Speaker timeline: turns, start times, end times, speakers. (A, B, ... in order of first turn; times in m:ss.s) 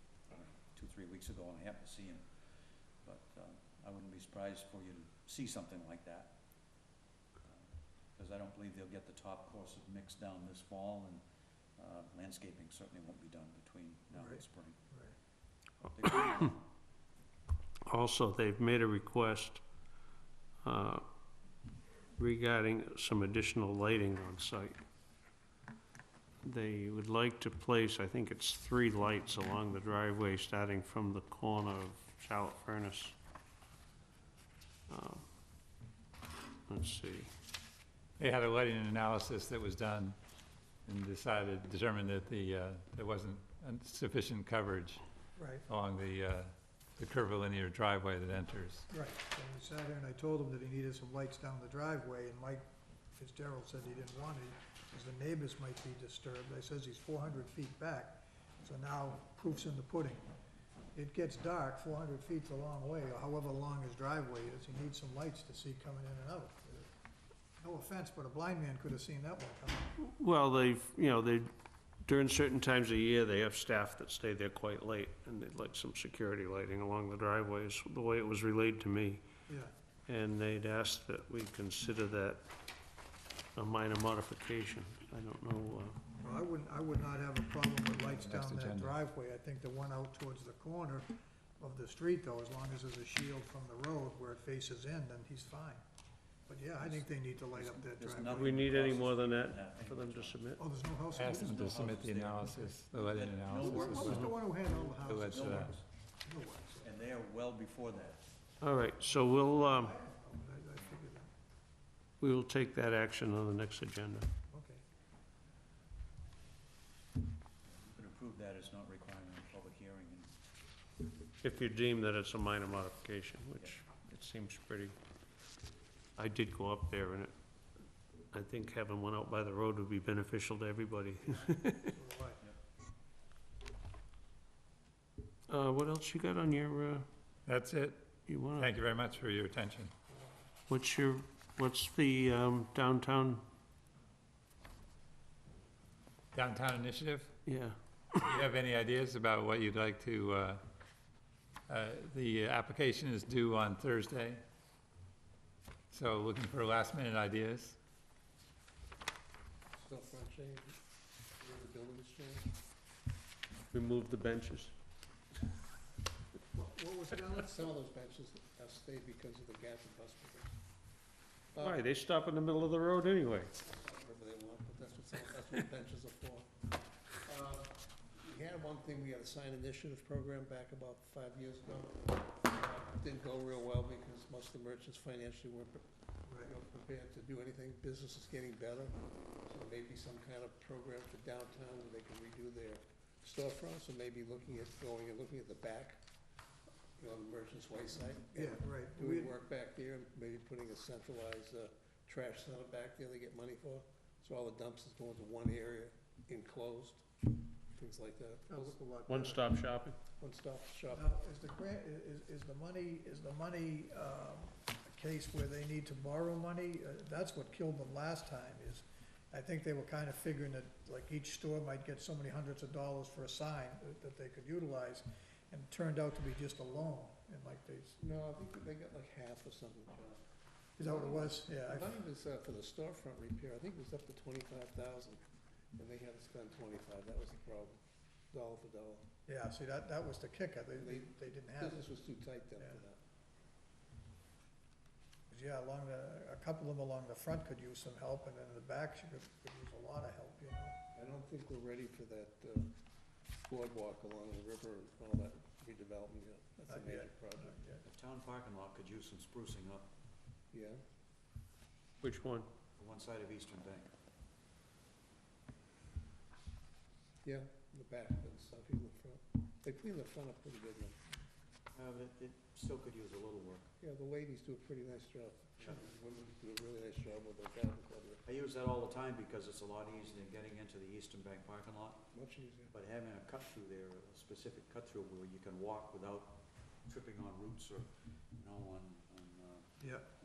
0:00.3-0:02.2 A
0:03.0-0:06.3 A
0:07.4-0:11.2 A
0:11.8-0:14.8 A
0:14.2-0:15.1 B
0:15.8-0:16.6 A
0:17.8-0:19.6 C
0:20.6-0:21.0 C
0:22.2-0:24.8 C
0:26.4-0:33.1 C
0:34.9-0:35.2 C
0:36.7-0:37.3 C
0:38.2-0:40.2 D
0:40.8-0:45.0 D
0:45.4-0:45.6 B
0:45.7-0:48.8 D
0:48.9-0:52.6 B
0:53.2-1:00.2 B
1:00.9-1:06.9 B
1:07.6-1:09.9 B
1:10.0-1:11.5 C
1:12.0-1:19.2 C
1:19.5-1:19.7 B
1:20.1-1:22.4 C
1:23.5-1:26.0 C
1:26.2-1:35.8 B
1:28.0-1:28.9 D
1:36.5-1:38.6 B
1:36.8-1:40.4 A
1:38.3-1:40.6 C
1:40.6-1:41.8 B
1:41.1-1:44.3 D
1:41.3-1:44.3 A
1:43.6-1:45.7 B
1:45.0-1:45.7 D
1:45.2-1:45.8 A
1:46.2-1:46.9 B
1:46.8-1:48.2 A
1:48.6-1:50.0 C
1:49.3-1:51.3 B
1:52.2-1:54.3 C
1:54.5-1:54.8 B
1:57.7-2:00.3 A
2:01.4-2:05.0 C
2:06.2-2:07.3 C
2:08.3-2:12.0 C
2:11.8-2:12.4 B
2:15.5-2:17.1 C
2:17.5-2:19.9 D
2:18.3-2:18.7 C
2:20.7-2:23.4 C
2:26.3-2:27.4 D
2:27.4-2:28.4 C
2:28.2-2:30.6 D
2:31.7-2:34.4 D
2:35.9-2:37.8 D
2:39.8-2:40.8 E
2:41.4-2:42.5 E
2:43.7-2:44.7 C
2:46.5-2:47.6 B
2:47.1-2:50.6 E
2:51.5-2:51.8 E
2:51.6-2:53.6 C
2:53.6-2:56.5 E
2:57.2-3:05.8 E
3:06.2-3:06.5 B
3:06.4-3:09.0 E
3:09.5-3:16.0 E
3:17.0-3:27.0 E
3:18.3-3:19.3 B
3:27.8-3:28.8 E
3:28.5-3:29.5 B
3:29.1-3:30.0 C
3:30.2-3:31.1 E
3:30.9-3:48.0 B
3:48.0-3:50.2 E
3:50.8-3:51.9 B
3:50.8-3:55.2 E
3:55.7-3:57.8 E
3:58.3-3:59.0 E
3:59.3-4:01.9 B
4:00.8-4:03.0 E
4:05.3-4:10.8 B
4:10.9-4:12.7 E
4:13.5-4:17.6 E
4:16.7-4:17.8 B
4:17.8-4:19.9 A
4:20.5-4:20.8 E
4:22.0-4:22.5 C
4:22.8-4:23.9 A
4:27.2-4:31.0 E
4:31.7-4:33.7 A
4:33.8-4:38.2 E
4:38.2-4:42.0 A
4:42.1-4:42.7 E
4:42.7-4:49.8 A
4:49.8-4:50.0 B